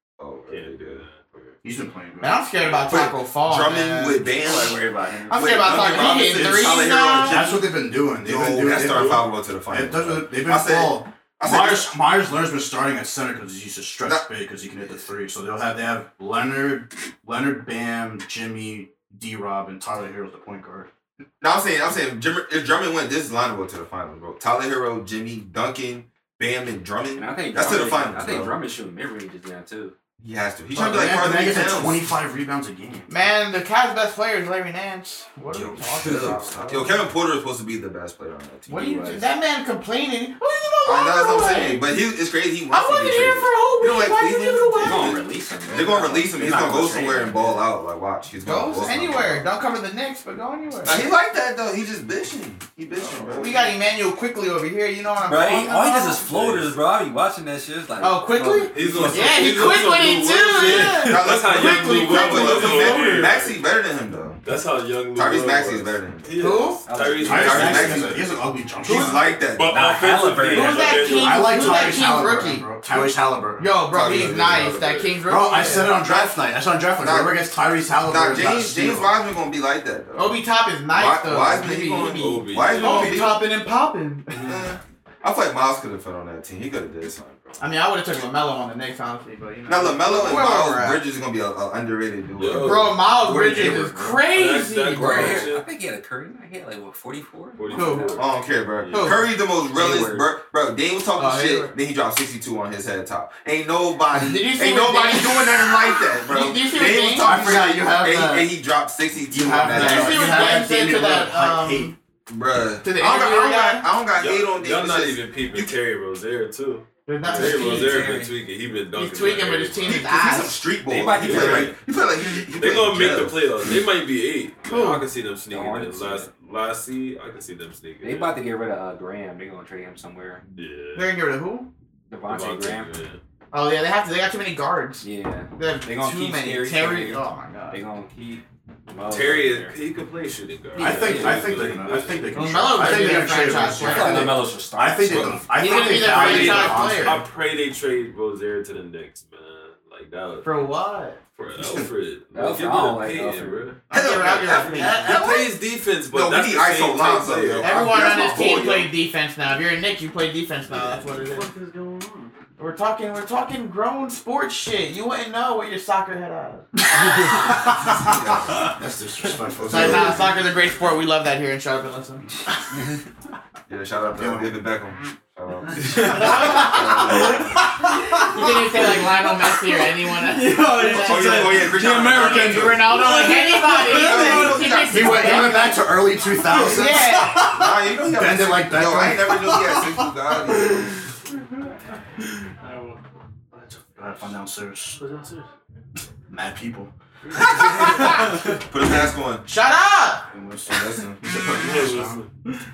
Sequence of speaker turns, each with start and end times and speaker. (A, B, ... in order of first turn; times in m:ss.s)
0:00.2-0:01.1 A
0:00.5-0:01.5 B
0:01.6-0:02.4 C
0:02.2-0:04.7 D
0:02.6-0:03.0 B
0:02.8-0:07.5 A
0:04.4-0:06.2 E
0:05.3-0:07.6 D
0:07.2-0:20.9 C
0:08.2-0:11.9 A
0:08.8-0:09.2 B
0:21.4-0:28.6 A
0:27.2-0:29.9 E
0:30.2-0:32.0 A
0:30.7-0:33.1 C
0:33.1-0:37.1 D
0:35.5-0:39.3 A
0:36.0-0:36.6 E
0:38.7-0:42.0 D
0:40.8-0:49.4 A
0:42.7-0:45.2 D
0:44.8-0:47.6 E
0:48.4-0:51.1 D
0:50.8-0:53.7 A
0:53.1-0:56.3 D
0:55.3-0:59.7 E
0:56.3-0:56.6 B
0:58.0-1:03.4 D
0:58.7-1:03.6 B
1:00.7-1:04.4 A
1:04.4-1:08.3 B
1:05.1-1:06.4 A
1:06.4-1:06.8 D
1:06.9-1:08.0 E
1:07.2-1:09.3 C
1:07.3-1:09.7 A
1:09.5-1:12.1 B
1:09.6-1:11.2 E
1:10.5-1:13.0 D
1:11.1-1:13.7 C
1:13.6-1:16.0 D
1:13.9-1:14.7 A
1:14.0-1:15.2 B
1:15.2-1:19.1 C
1:15.7-1:16.4 A
1:17.0-1:17.4 A
1:18.0-1:23.5 A
1:20.2-1:24.5 D
1:22.1-1:23.3 B
1:24.3-1:24.6 B
1:24.4-1:27.6 A
1:27.6-1:31.0 D
1:29.7-1:34.2 A
1:32.3-1:33.1 B
1:32.6-1:35.4 D
1:33.5-1:34.1 E
1:34.3-1:35.6 B
1:35.0-1:38.1 E
1:35.0-1:35.4 A
1:37.6-1:39.2 B
1:37.7-1:38.2 D
1:38.1-1:50.6 A
1:38.9-1:39.2 D
1:39.7-1:40.3 E
1:41.1-1:41.7 D
1:44.1-1:47.5 D
1:47.2-1:48.5 C
1:49.3-1:51.9 C
1:49.4-1:51.9 D
1:52.3-1:55.7 A
1:52.8-1:53.9 D
1:54.1-2:00.0 B
1:57.0-1:58.0 D
1:57.2-1:58.3 E
1:58.9-2:00.6 D
1:59.8-2:03.7 A
2:00.9-2:01.7 E
2:01.2-2:01.8 B
2:02.5-2:08.4 B
2:04.6-2:05.1 D
2:05.5-2:06.3 E
2:08.0-2:10.4 E
2:10.5-2:11.1 B
2:10.9-2:11.7 D
2:12.1-2:12.9 E
2:12.3-2:13.2 B
2:13.5-2:17.8 D
2:15.0-2:19.8 E
2:19.1-2:23.0 B
2:20.8-2:27.2 C
2:20.8-2:21.8 E
2:22.3-2:24.3 D
2:23.0-2:26.3 E
2:25.1-2:25.4 A
2:25.5-2:27.2 D
2:26.1-2:30.6 B
2:26.2-2:26.8 A
2:30.4-2:31.2 D
2:31.3-2:33.8 B
2:31.6-2:31.9 A
2:32.3-2:33.7 E
2:33.9-2:35.3 D
2:33.9-2:35.6 A
2:34.7-2:37.8 B
2:36.1-2:38.9 A
2:37.6-2:41.5 D
2:40.7-2:42.3 B
2:42.6-2:48.7 D
2:47.0-2:50.2 C
2:47.8-2:48.7 A
2:49.6-2:50.3 A
2:49.6-2:52.3 D
2:53.7-2:57.7 A
2:54.1-2:54.5 C
2:55.9-3:05.8 D
2:56.4-2:57.4 C
3:00.6-3:04.6 B
3:00.9-3:03.1 A
3:03.7-3:05.6 A
3:04.8-3:10.1 C
3:06.5-3:07.6 D
3:07.4-3:11.0 A
3:12.6-3:13.0 B
3:13.8-3:15.0 C
3:15.0-3:15.4 B
3:16.3-3:16.9 C
3:17.3-3:18.3 B
3:17.3-3:19.4 A
3:18.8-3:20.3 D
3:20.3-3:22.2 C
3:20.7-3:21.2 A
3:21.5-3:22.3 B